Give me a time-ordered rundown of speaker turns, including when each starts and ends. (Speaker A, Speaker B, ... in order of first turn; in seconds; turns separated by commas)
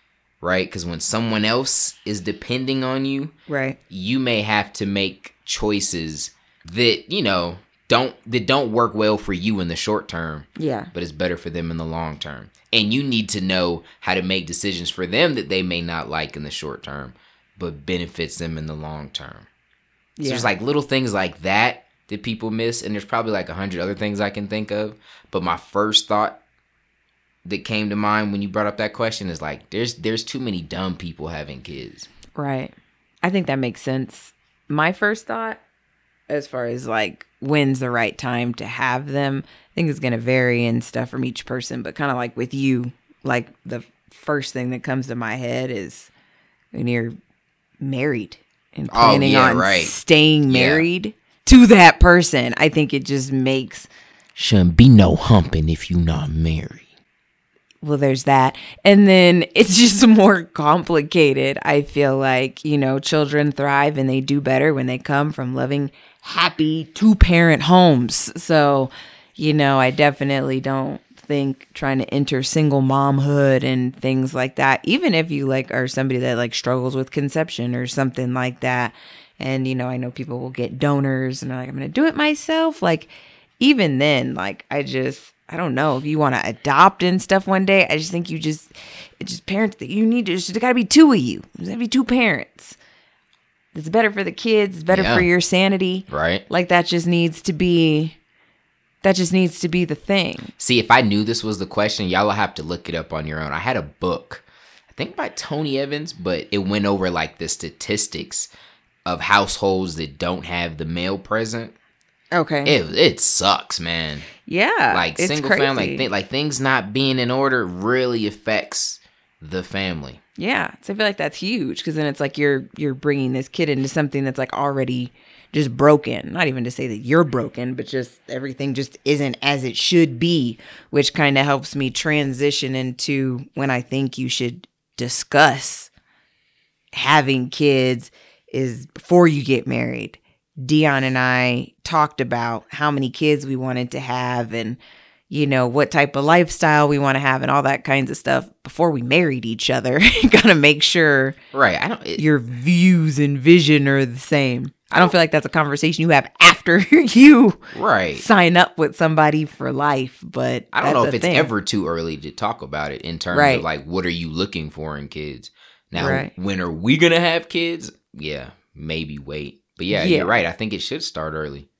Speaker A: 0.4-3.3, Speaker B: 3.5-3.8, Speaker A: 3.9-19.5, Speaker B: 10.6-10.9, Speaker B: 20.2-20.5, Speaker A: 20.2-26.4, Speaker A: 27.4-32.1, Speaker B: 32.3-35.6, Speaker B: 36.3-46.1, Speaker B: 46.7-47.1, Speaker B: 47.8-53.9, Speaker A: 48.9-49.9, Speaker A: 50.5-50.9, Speaker A: 54.4-56.9, Speaker B: 57.8-92.8, Speaker B: 93.7-98.2, Speaker A: 94.9-95.3, Speaker A: 96.1-96.4, Speaker B: 99.0-100.5, Speaker A: 100.6-108.5, Speaker A: 109.0-111.7, Speaker B: 112.3-112.8, Speaker A: 112.6-114.3, Speaker B: 114.4-116.1, Speaker A: 114.9-120.2, Speaker B: 120.4-135.9, Speaker B: 136.9-144.8, Speaker B: 145.3-151.4, Speaker A: 151.5-152.2, Speaker B: 152.2-157.6, Speaker A: 157.7-158.2, Speaker B: 158.1-161.5, Speaker A: 160.7-171.7, Speaker B: 163.3-163.6, Speaker B: 165.9-166.3, Speaker B: 169.9-170.4